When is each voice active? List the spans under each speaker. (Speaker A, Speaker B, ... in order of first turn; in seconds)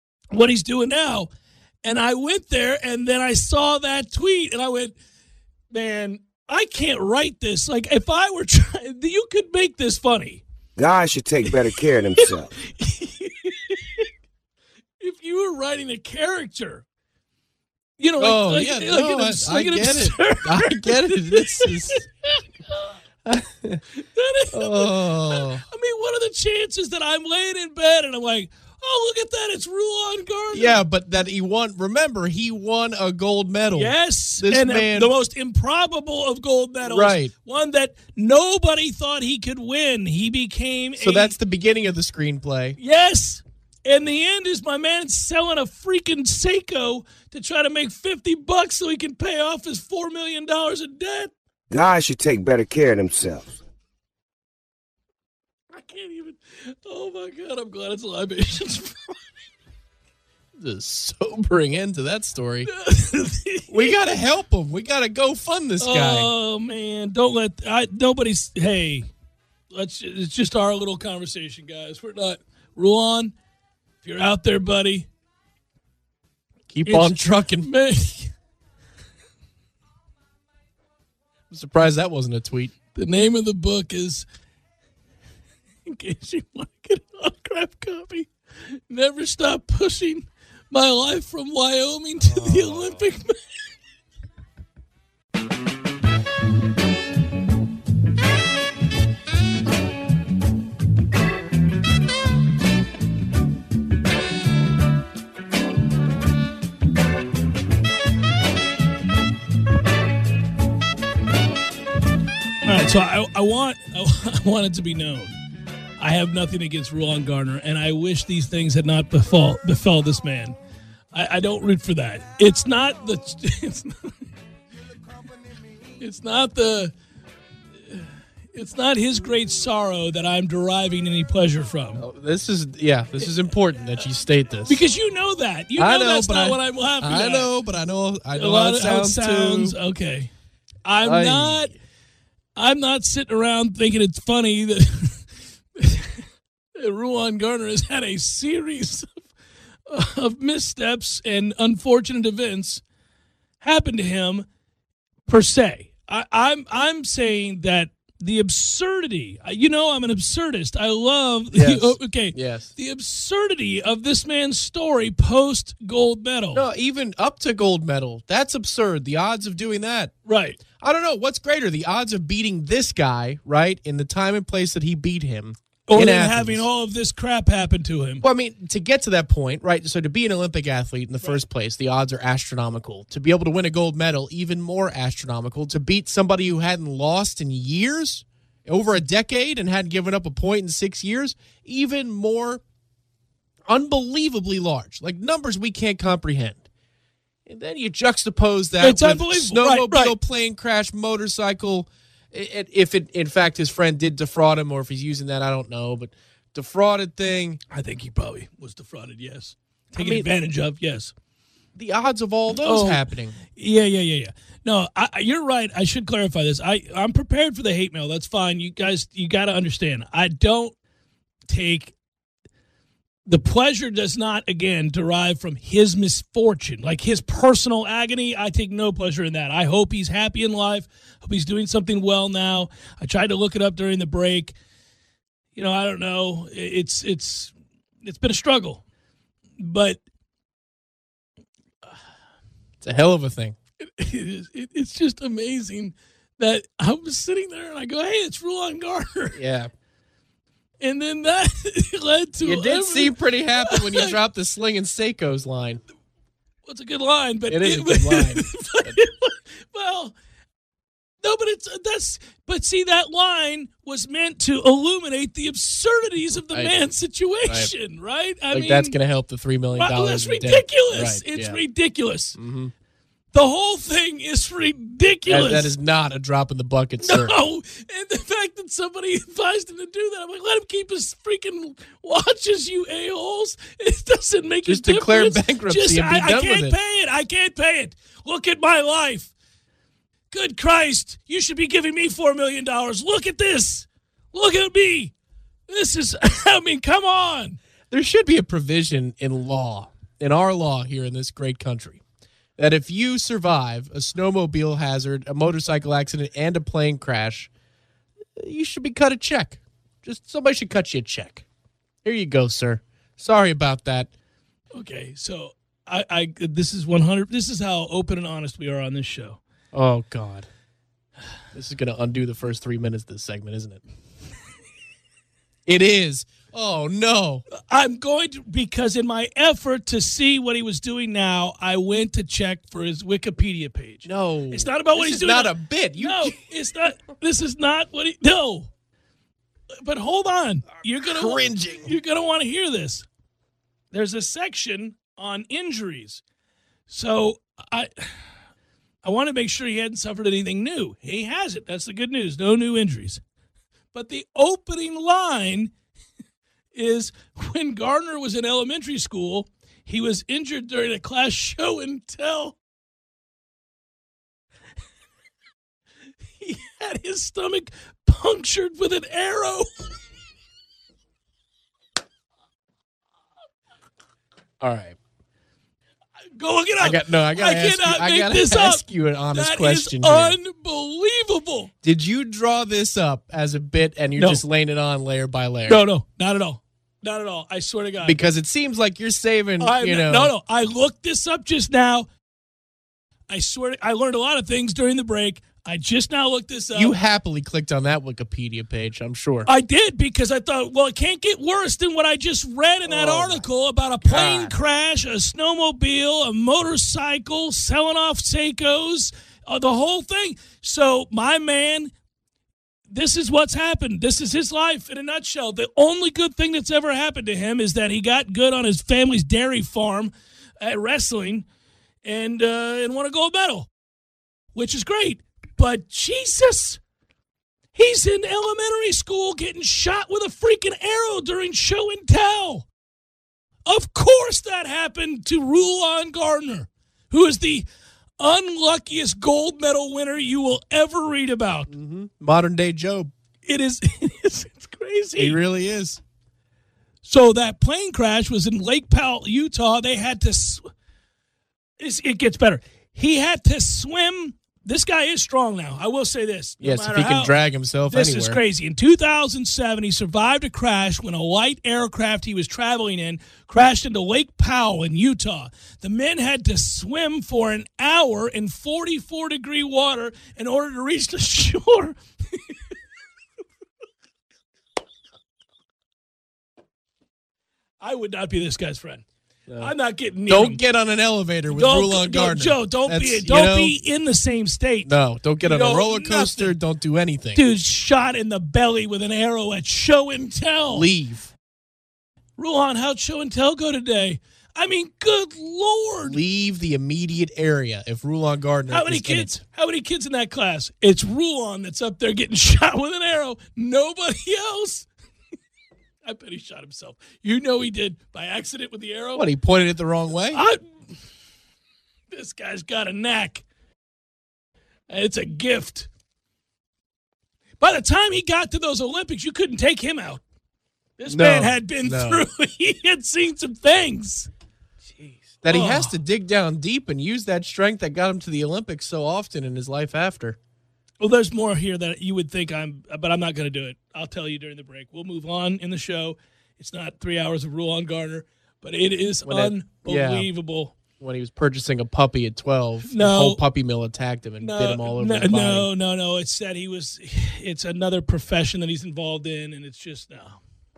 Speaker A: 0.3-1.3, 1.8-4.9, 5.7-10.4, 12.2-14.1, 15.0-16.8, 18.0-22.9, 24.0-30.8, 33.7-41.3, 42.8-51.3, 55.7-59.2, 62.7-64.0, 65.8-69.1, 69.7-73.3, 74.0-75.1, 76.8-78.3, 82.9-84.2, 85.8-93.3, 112.6-115.3, 116.0-120.6, 121.1-124.1, 126.0-126.9, 127.9-132.0, 134.7-137.5, 138.3-140.3, 140.8-141.7, 142.6-146.2, 146.8-149.1, 149.9-152.8, 153.6-154.4, 155.3-166.6, 170.2-170.6, 175.9-178.2, 198.8-200.1, 207.7-211.1, 212.6-220.7, 221.5-221.9, 223.3-234.5, 235.6-237.5, 238.0-238.8, 239.6-240.0, 243.8-249.4, 250.8-254.1, 256.6-260.1, 261.2-269.0, 269.7-272.4, 273.3-275.7, 277.0-289.3, 290.3-295.1, 295.7-297.6, 314.7-319.4, 327.7-338.7, 339.8-343.1, 343.9-346.2, 346.9-348.1, 349.0-353.2, 353.9-355.7, 356.7-362.6, 366.4-369.7, 376.3-381.7, 384.1-384.4, 385.7-388.2, 389.6-392.1, 393.3-396.9, 399.4-411.9, 412.9-421.4, 422.0-423.7, 424.5-426.8, 427.7-432.7, 433.6-437.6, 438.2-441.7, 443.4-445.4, 447.0-450.6, 451.8-457.4, 457.9-472.6, 477.8-479.0, 479.6-480.6, 481.5-486.6, 487.3-490.9, 492.4-496.2, 498.7-504.9, 506.1-509.3, 510.3-510.6, 512.1-513.4, 514.9-515.9, 517.6-520.2, 521.0-524.3, 524.9-525.9, 531.0-540.7, 542.8-543.4, 544.4-550.4
Speaker B: 10.8-12.5, 51.7-53.6
Speaker C: 18.2-22.0, 23.2-23.8, 24.5-25.6, 30.5-35.1, 36.8-37.3, 41.0-42.8, 60.5-62.7, 63.7-66.3, 76.7-77.7, 81.5-82.7, 132.0-134.8, 135.8-139.8, 141.0-141.7, 161.5-162.7, 166.5-170.1, 170.8-176.6, 178.2-192.6, 193.7-196.6, 197.4-207.6, 209.9-210.3, 211.8-213.4, 242.8-243.6, 249.3-249.7, 252.4-255.8, 257.5-259.0, 268.5-271.6, 272.4-272.7, 275.3-277.4, 284.6-286.8, 297.9-302.0, 302.6-307.5, 308.4-311.4, 312.0-314.1, 319.7-320.5, 321.5-323.8, 325.6-327.4, 334.0-336.4, 341.0-341.9, 374.6-375.0, 376.8-380.4, 381.8-385.8, 388.0-390.3, 396.7-399.5, 402.8-403.4, 404.0-404.5, 441.7-443.1, 445.2-446.0, 456.6-458.4, 479.5-479.7, 480.3-483.7, 484.8-487.4, 490.7-491.3, 496.0-499.4, 509.1-510.4, 521.1-522.2, 525.4-530.4, 539.2-540.3, 541.0-545.7